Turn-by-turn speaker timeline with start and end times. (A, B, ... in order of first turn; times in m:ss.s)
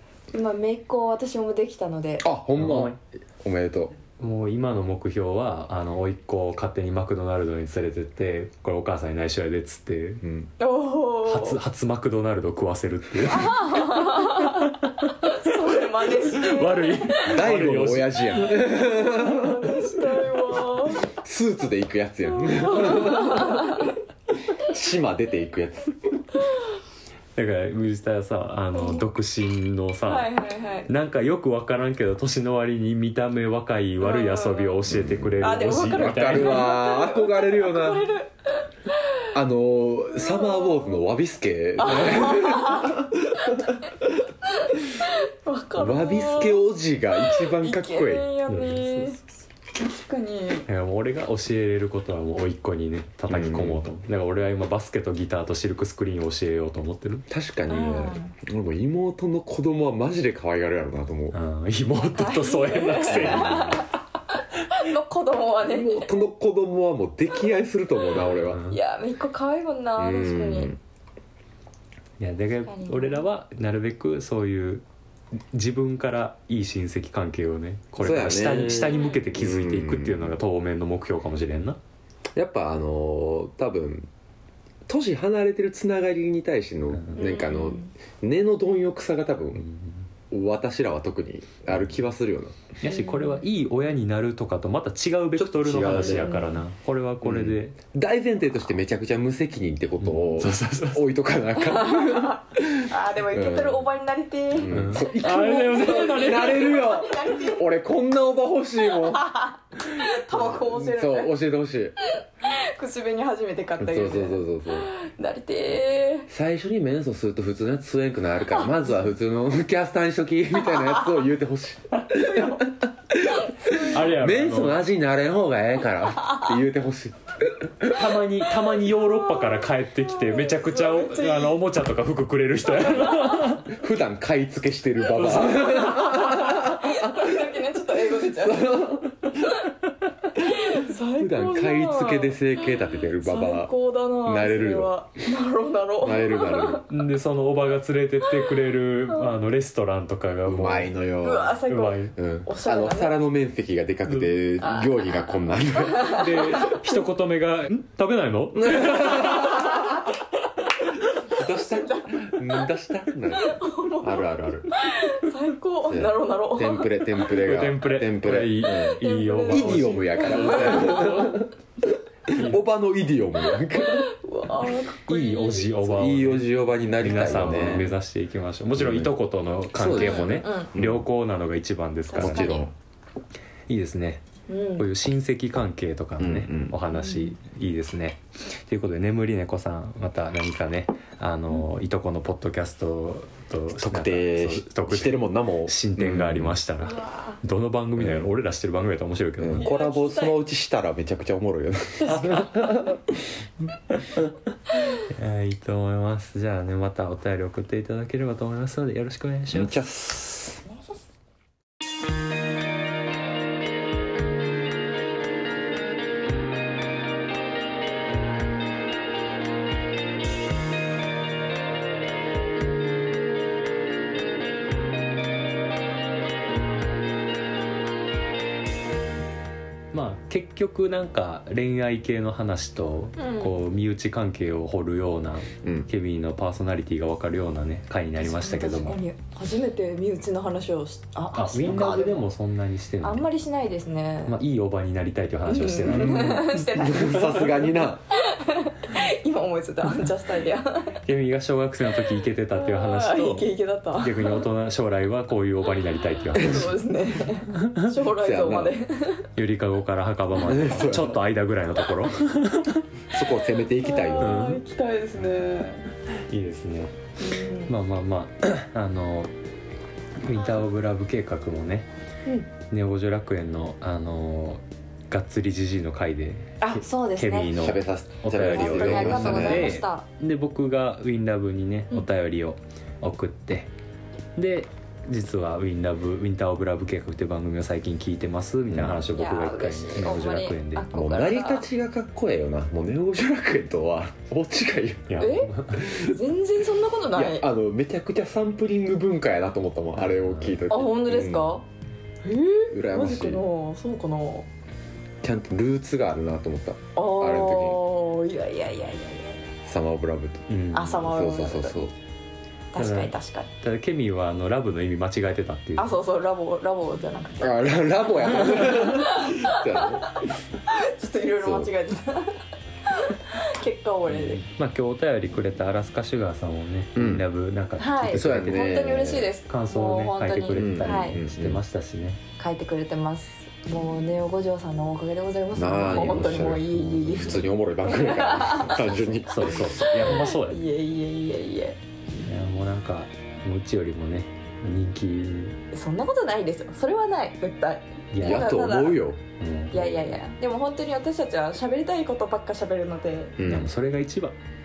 0:00.3-0:02.3 A
0:02.2-0:04.0 B
0:02.6-0:03.0 C
0:04.2-0:10.2 C
0:10.2-0:10.5 B
0:10.6-0:11.6 A
0:11.2-0:18.6 C
0:13.3-0:17.4 A
0:17.2-0:19.9 B
0:18.7-0:21.1 A
0:21.0-0:23.9 B
0:22.3-0:24.0 A
0:24.5-0:25.9 B
0:27.4-0:30.3 C
0:28.7-0:29.0 A
0:30.0-0:30.9 A
0:30.9-0:36.7 C
0:34.0-0:34.8 A
0:34.9-0:38.1 B
0:35.4-0:39.2 A
0:39.3-0:44.1 B
0:40.2-0:41.0 A
0:41.8-0:43.6 A
0:44.5-0:46.6 A
0:45.8-0:48.3 B
0:47.2-0:49.2 A
0:48.5-0:49.2 C
0:49.7-0:50.6 A
0:50.7-0:57.2 C
0:53.3-0:53.8 B
0:57.3-1:01.4 B
0:57.7-0:58.3 A
1:01.3-1:03.9 C
1:01.9-1:03.9 A
1:03.1-1:03.7 B
1:04.6-1:06.1 A
1:05.6-1:08.6 B
1:08.2-1:08.8 C
1:08.7-1:10.7 A
1:10.0-1:10.8 B
1:12.2-1:14.8 C
1:12.7-1:13.2 A
1:15.5-1:21.8 C
1:18.0-1:20.4 B
1:18.7-1:19.2 A
1:22.4-1:24.1 B
1:24.9-1:29.6 B
1:26.9-1:27.2 C
1:27.1-1:27.9 A
1:29.6-1:30.0 C
1:30.3-1:32.6 B
1:32.8-1:37.8 C
1:32.8-1:33.4 A
1:35.4-1:36.4 B
1:35.9-1:36.4 A
1:37.2-1:43.9 B
1:40.0-1:41.1 C
1:41.6-1:47.8 A
1:44.5-1:49.3 B
1:44.7-1:46.6 C
1:48.9-1:51.3 A
1:50.3-1:52.0 B
1:52.0-1:56.3 A
1:53.8-1:54.9 B
1:56.3-2:08.0 B
2:02.1-2:03.9 A
2:03.9-2:04.8 C
2:07.8-2:13.7 C
2:08.8-2:11.6 A
2:12.6-2:13.5 A
2:13.6-2:17.4 B
2:15.1-2:15.7 C
2:15.6-2:19.7 A
2:18.2-2:19.2 B
2:20.4-2:22.5 A
2:20.6-2:23.7 B
2:23.2-2:26.8 A
2:24.2-2:24.9 B
2:26.0-2:26.9 B
2:26.9-2:30.9 C
2:28.3-2:28.5 A
2:29.1-2:29.3 A
2:30.4-2:31.6 B
2:31.2-2:33.2 A
2:31.7-2:32.1 C
2:32.1-2:36.5 B
2:34.6-2:36.8 A
2:36.0-2:39.3 C
2:38.5-2:40.1 B
2:39.1-2:40.1 A
2:41.2-2:42.7 A
2:41.3-2:44.9 B
2:43.4-2:47.1 A
2:45.9-2:51.5 B
2:47.3-2:51.4 C
2:48.6-2:51.4 A
2:52.3-2:52.6 C
2:52.3-2:54.1 B
2:53.7-2:55.9 A
2:55.0-3:02.6 C
2:55.8-2:57.9 B
2:58.8-2:59.1 B
2:59.7-3:01.0 B
3:00.0-3:00.7 A
3:02.1-3:02.7 A
3:02.2-3:02.7 B
3:03.7-3:04.2 C
3:04.5-3:04.9 A
3:04.8-3:19.7 C
3:06.2-3:06.8 B
3:06.9-3:07.3 A
3:13.8-3:16.6 B
3:16.8-3:17.4 A
3:18.0-3:18.3 B
3:19.4-3:23.2 B
3:19.5-3:20.4 A
3:22.0-3:22.6 C
3:25.1-3:29.8 C
3:29.5-3:30.6 B
3:49.9-3:59.0 C
3:53.2-3:53.6 A
3:55.6-3:55.9 B
3:58.2-4:02.2 A
4:01.3-4:03.3 C
4:03.0-4:04.4 A
4:04.3-4:07.5 C
4:05.4-4:07.5 A
4:05.9-4:08.0 B
4:08.1-4:11.0 A
4:11.0-4:16.7 C
4:12.5-4:14.5 A
4:16.3-4:19.3 A
4:17.6-4:17.9 C
4:18.1-4:18.8 B
4:19.4-4:22.8 C
4:20.4-4:21.3 B
4:23.1-4:24.4 B
4:23.8-4:25.8 A
4:24.2-4:24.6 C
4:26.3-4:26.9 C
4:27.2-4:27.7 A
4:27.7-4:29.3 C
4:30.2-4:31.9 C
4:30.4-4:30.6 A
4:32.7-4:43.7 C
4:36.6-4:37.6 A
4:37.5-4:39.8 B
4:38.5-4:40.0 A
4:44.4-4:50.8 C
4:48.7-4:49.0 B
4:49.1-4:51.7 A
4:50.9-4:55.2 B
4:55.1-4:55.9 C
4:55.2-4:57.5 A
4:55.8-4:56.2 B
4:57.1-5:01.5 B
5:00.0-5:00.6 C
5:00.7-5:01.6 A
5:02.2-5:04.5 A
5:02.7-5:03.4 B
5:05.2-5:07.8 B
5:07.0-5:09.5 A
5:09.6-5:10.4 B
5:10.5-5:11.1 C
5:10.7-5:11.9 A
5:11.0-5:11.9 B
5:12.7-5:13.5 A
5:12.8-5:16.0 C
5:15.8-5:17.6 A
5:17.4-5:20.2 B
5:18.1-5:24.4 A
5:21.4-5:21.7 B
5:24.1-5:28.8 C
5:26.9-5:27.2 B
5:27.8-5:31.2 A
5:28.1-5:29.3 B
5:29.5-5:32.2 C
5:30.5-5:31.6 B
5:32.4-5:41.8 A
5:35.5-5:39.9 B
5:36.4-5:37.4 C
5:39.2-5:40.6 C
5:42.1-5:45.6 C
5:45.7-5:49.0 A
5:48.1-5:48.5 C
5:48.2-5:49.2 B
5:49.4-5:50.1 C
5:49.7-5:53.4 A
5:53.4-5:53.7 B
5:53.4-5:54.4 C